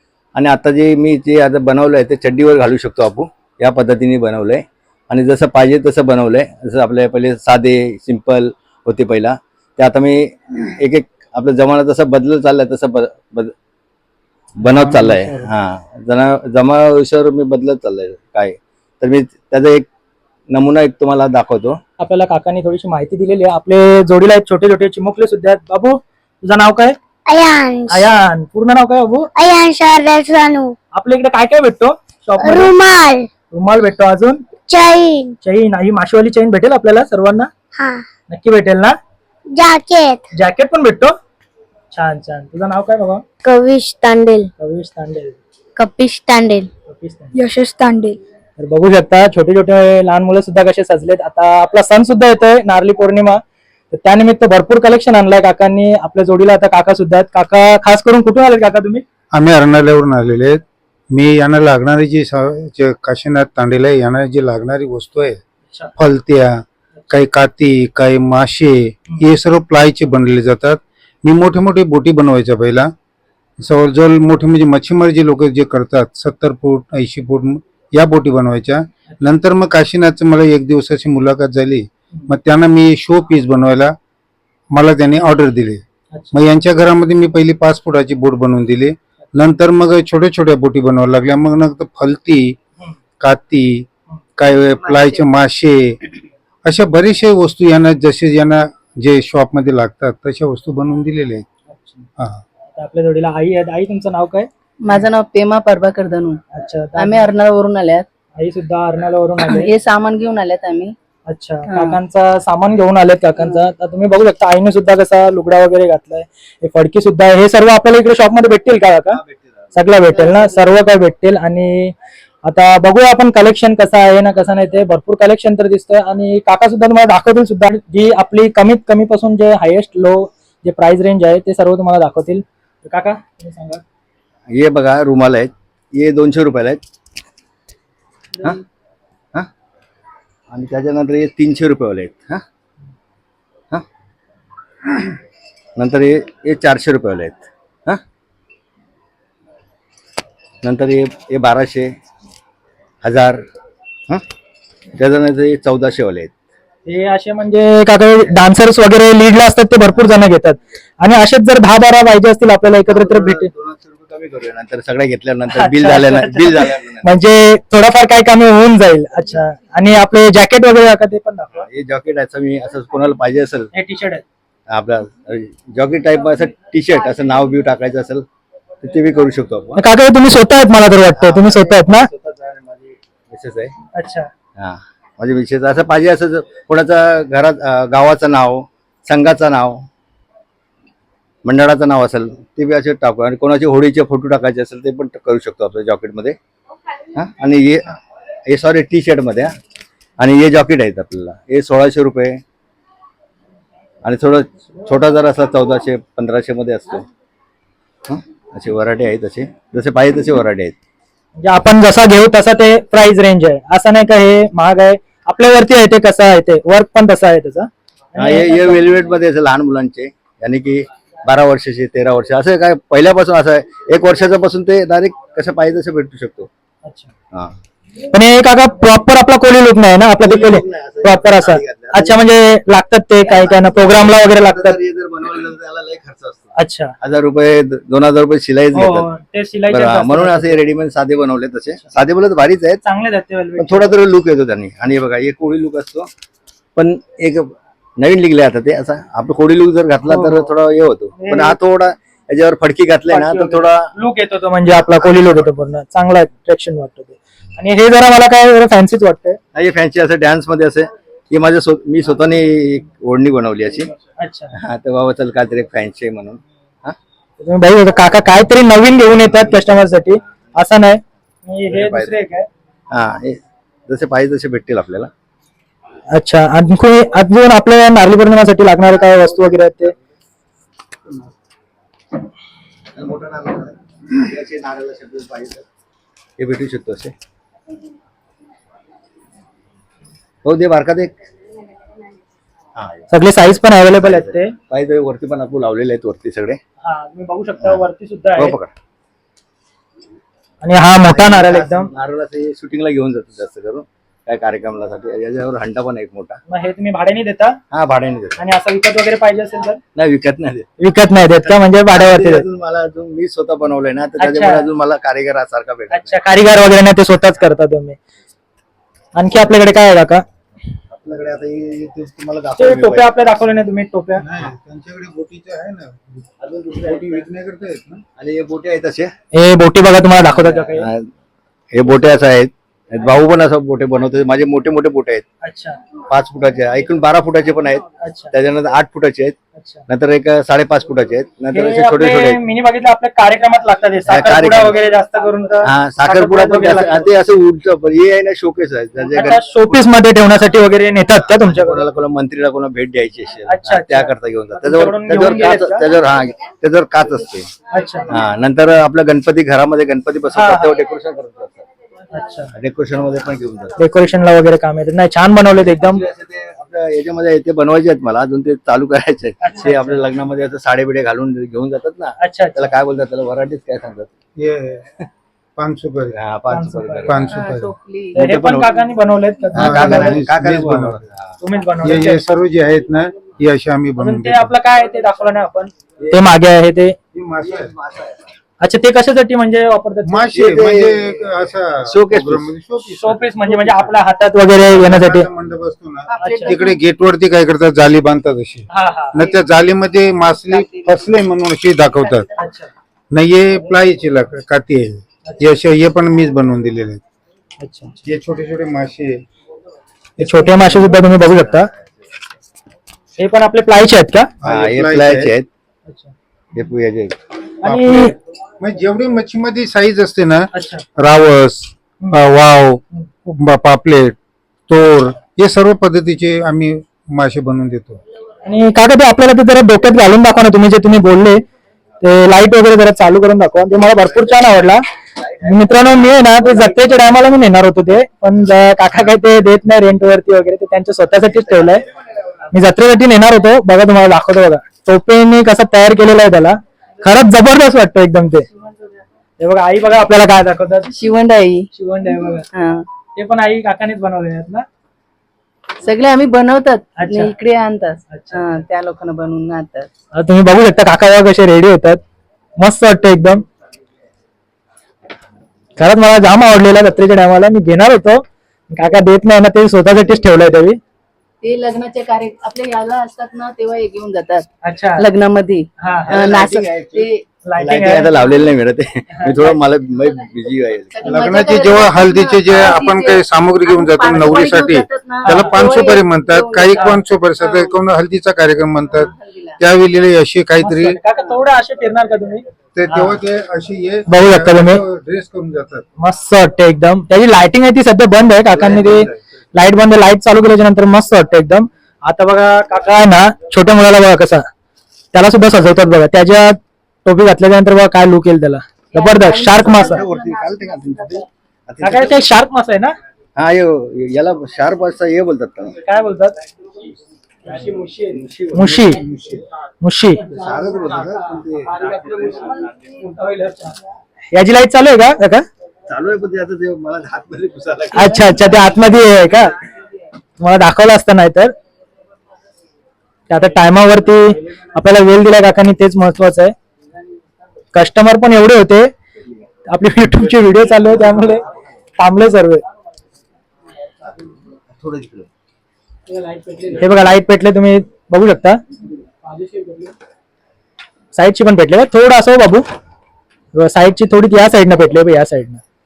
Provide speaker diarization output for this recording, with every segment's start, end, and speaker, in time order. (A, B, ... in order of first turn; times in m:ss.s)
0:00.4-0:13.5 A
0:14.6-0:19.9 A
0:14.7-0:15.3 B
0:14.8-0:15.3 C
0:20.5-0:21.8 A
0:22.0-0:27.0 C
0:27.3-0:28.0 D
0:27.9-0:29.3 C
0:29.4-0:30.7 D
0:31.0-0:32.7 C
0:32.4-0:33.3 D
0:33.5-0:34.4 C
0:34.7-0:35.4 D
0:35.4-0:37.5 C
0:37.8-0:38.0 D
0:38.3-0:39.0 C
0:39.5-0:40.2 D
0:40.3-0:41.2 C
0:41.9-0:43.2 C
0:43.4-0:44.5 D
0:44.6-0:45.4 C
0:45.8-0:46.7 D
0:46.9-0:47.3 C
0:47.3-0:48.2 D
0:48.6-0:53.4 C
0:53.9-0:59.0 C
0:59.3-1:05.4 B
1:06.0-1:12.9 B
1:13.6-1:23.9 B
1:24.7-1:32.6 B
1:33.2-1:33.8 B
1:34.4-1:36.1 B
1:36.7-1:41.5 B
1:41.7-1:42.1 C
1:42.2-1:42.4 B
1:42.8-1:44.5 C
1:44.8-1:46.4 E
1:46.5-1:47.3 C
1:47.0-1:48.0 E
1:48.4-1:49.7 C
1:49.4-1:50.9 E
1:51.3-1:59.2 C
1:51.7-1:52.0 E
1:59.1-1:59.7 A
1:59.7-2:01.9 C
2:02.5-2:13.8 C
2:14.5-2:16.8 A
2:20.5-2:22.4 A
2:25.8-2:28.0 A
2:30.6-2:31.9 A
2:33.0-2:33.4 A
2:35.0-2:36.3 A
2:36.9-2:43.5 C
2:42.9-2:47.1 A
2:45.5-2:51.7 C
2:51.6-2:53.7 A
2:53.7-2:54.2 C
2:54.7-2:58.3 A
2:58.8-2:59.8 A
2:59.8-3:02.1 C
3:01.1-3:03.7 A
3:03.9-3:04.3 C
3:04.6-3:09.9 A
3:11.4-3:16.4 A
3:17.1-3:19.6 A
3:20.2-3:22.4 A
3:24.0-3:27.1 A
3:28.1-3:30.8 A
3:31.4-3:38.8 C
3:38.2-3:46.5 A
3:46.8-3:47.1 C
3:48.1-3:54.8 C
3:50.2-3:52.2 A
3:53.6-3:59.1 A
3:56.6-3:56.9 C
3:58.7-4:00.6 C
3:59.7-4:02.8 A
4:02.8-4:04.0 C
4:03.6-4:06.1 A
4:06.8-4:13.9 A
4:10.1-4:10.5 C
4:11.2-4:11.6 C
4:13.1-4:19.4 C
4:14.9-4:15.5 A
4:19.5-4:23.9 A
4:24.2-4:24.5 C
4:24.5-4:27.0 A
4:27.4-4:32.5 C
4:31.7-4:32.1 A
4:32.9-4:35.1 A
4:36.1-4:39.9 C
4:42.9-4:45.7 A
4:46.4-4:47.1 A
4:50.4-4:51.1 A
4:52.8-4:56.6 A
4:53.1-4:54.6 C
4:56.8-4:58.6 C
4:58.4-4:58.7 A
5:00.6-5:01.9 C
5:01.0-5:06.4 A
5:06.5-5:07.6 C
5:07.7-5:08.4 A
5:08.4-5:09.8 C
5:10.0-5:10.7 A
5:10.8-5:12.4 C
5:11.3-5:16.2 A
5:14.2-5:14.7 C
5:15.9-5:18.0 C
5:19.2-5:20.2 C
5:20.9-5:23.1 A
5:22.6-5:24.2 C
5:24.2-5:28.0 B
5:26.4-5:27.3 A
5:28.2-5:29.1 A
5:29.3-5:30.9 C
5:30.2-5:31.1 A
5:31.7-5:35.3 A
5:35.4-5:35.8 C
5:36.1-5:39.4 A
5:38.0-5:38.3 C
5:39.6-5:39.9 C
5:39.9-5:42.4 A
5:41.5-5:47.1 C
5:44.1-5:44.8 A
5:45.6-5:49.9 A
5:49.1-5:51.8 C
5:51.2-5:57.5 A
5:53.5-5:55.9 C
5:57.7-5:58.1 C
5:58.1-6:01.7 A
6:00.3-6:00.7 C
6:02.1-6:02.5 C
6:02.5-6:03.8 A
6:03.8-6:06.0 C
6:05.6-6:14.1 A
6:09.4-6:10.0 C
6:12.2-6:12.7 C
6:14.4-6:14.9 B
6:15.6-6:16.2 B
6:16.2-6:17.4 A
6:16.5-6:17.1 C
6:17.0-6:17.7 B
6:17.3-6:18.2 E
6:18.1-6:20.3 C
6:18.2-6:18.8 A
6:19.5-6:21.0 B
6:19.5-6:21.4 A
6:21.4-6:22.2 C
6:21.8-6:24.5 B
6:24.0-6:27.0 C
6:27.1-6:27.8 B
6:27.4-6:28.3 A
6:28.6-6:30.3 C
6:30.1-6:34.0 B
6:30.3-6:31.3 A
6:31.8-6:32.5 A
6:33.0-6:35.3 C
6:34.5-6:42.3 B
6:36.1-6:36.8 E
6:36.2-6:36.6 C
6:38.7-6:39.3 C
6:40.5-6:40.8 E
6:42.4-6:42.7 C
6:43.1-6:47.0 B
6:47.6-6:48.0 C
6:48.0-6:49.2 B
6:50.2-6:51.7 C
6:50.2-6:50.9 B
6:50.5-6:51.9 A
6:53.2-6:54.3 C
6:54.4-6:55.3 B
6:54.4-6:55.5 A
6:55.9-6:56.1 C
6:56.5-6:57.2 A
6:57.6-6:58.1 C
6:57.6-7:04.2 B
7:00.5-7:00.8 C
7:04.7-7:08.0 B
7:08.4-7:11.4 C
7:12.0-7:14.8 C
7:14.0-7:14.3 A
7:15.2-7:17.2 A
7:15.4-7:21.8 C
7:21.3-7:21.8 A
7:22.5-7:28.5 C
7:29.4-7:30.9 C
7:30.9-7:31.7 E
7:31.7-7:32.5 C
7:32.5-7:32.8 E
7:33.2-7:34.7 C
7:35.8-7:39.9 E
7:37.0-7:37.3 C
7:38.1-7:38.4 C
7:40.2-7:42.0 C
7:42.6-7:43.4 C
7:45.8-7:50.8 C
7:51.4-7:57.2 E
7:54.6-7:55.1 C
7:55.8-7:56.2 C
7:56.1-8:01.2 A
7:57.4-7:58.3 C
7:59.1-7:59.5 C
8:00.9-8:07.7 E
8:01.0-8:11.0 B
8:05.2-8:05.8 C
8:06.7-8:07.0 C
8:09.0-8:09.6 E
8:10.6-8:13.2 C
8:12.8-8:15.9 B
8:14.1-8:14.8 C
8:16.0-8:24.5 C
8:18.5-8:19.2 A
8:25.1-8:30.0 C
8:28.9-8:31.2 E
8:29.4-8:32.2 A
8:31.8-8:33.0 C
8:33.4-8:35.8 A
8:35.8-8:36.4 C
8:37.5-8:39.4 A
8:37.6-8:39.0 C
8:39.8-8:40.2 C
8:40.2-8:42.7 A
8:41.8-8:42.0 C
8:43.0-8:43.8 C
8:44.3-8:45.5 C
8:45.9-8:48.8 A
8:47.9-8:49.5 C
8:50.4-8:51.5 C
8:53.3-8:56.5 C
8:57.7-8:58.9 C
8:59.7-9:01.4 C
9:02.0-9:02.6 C
9:04.7-9:05.3 A
9:06.8-9:08.6 C
9:09.2-9:09.9 C
9:11.2-9:12.6 C
9:13.6-9:15.6 C